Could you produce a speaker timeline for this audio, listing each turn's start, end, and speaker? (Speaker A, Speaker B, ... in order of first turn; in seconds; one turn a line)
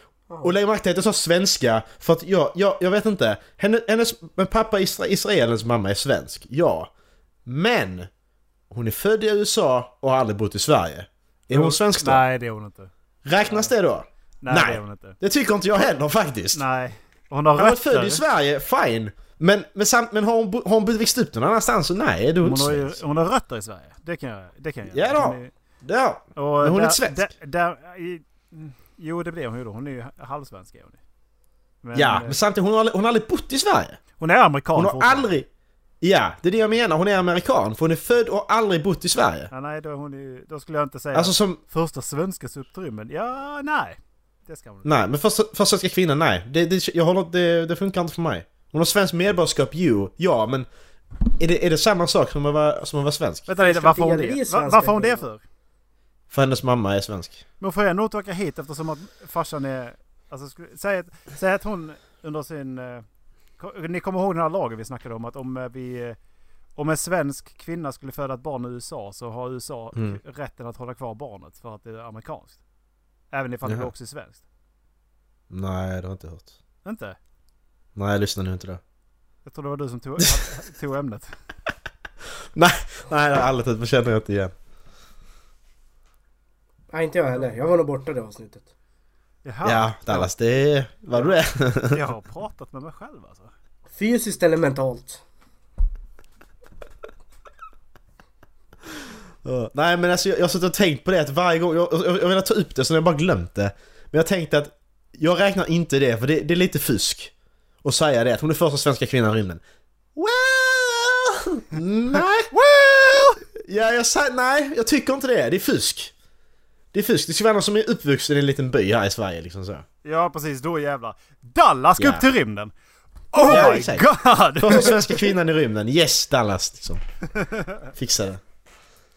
Speaker A: 0.3-0.6
Speaker B: 0.4-6.9
Speaker B: 7.5-8.1
Speaker B: 8.7-12.2
Speaker C: 11.5-12.9
Speaker B: 13.2-16.6
Speaker C: 13.4-13.7
Speaker C: 14.4-15.2
Speaker C: 16.5-18.2
Speaker B: 17.6-23.0
Speaker C: 22.4-25.5
Speaker B: 24.9-27.3
Speaker C: 26.4-31.0
Speaker C: 31.8-32.4
Speaker B: 31.9-34.0
Speaker C: 34.2-35.3
Speaker B: 34.7-35.5
Speaker B: 36.0-39.5
Speaker C: 39.5-44.9
Speaker B: 41.1-41.6
Speaker B: 44.8-50.7
Speaker B: 51.2-53.5
Speaker C: 53.5-55.4
Speaker A: 53.6-55.2
Speaker B: 56.3-57.4
Speaker C: 57.6-63.0
Speaker C: 63.6-66.2
Speaker C: 66.8-72.6
Speaker C: 73.3-74.4
Speaker B: 73.6-73.9
Speaker B: 75.5-76.5
Speaker C: 76.8-77.2
Speaker B: 78.0-78.8
Speaker C: 79.5-81.3
Speaker B: 82.5-84.5
Speaker A: 86.9-88.7
Speaker C: 89.4-90.3
Speaker B: 89.6-92.0
Speaker C: 91.9-93.5
Speaker A: 93.9-95.2
Speaker B: 99.4-107.3
Speaker B: 107.8-109.6
Speaker B: 110.1-112.5
Speaker C: 112.5-113.4
Speaker B: 113.5-116.1
Speaker B: 116.9-119.8
Speaker C: 120.0-122.7
Speaker B: 122.0-122.2
Speaker C: 123.3-125.3
Speaker B: 123.4-127.0
Speaker C: 127.4-127.7
Speaker B: 127.9-128.4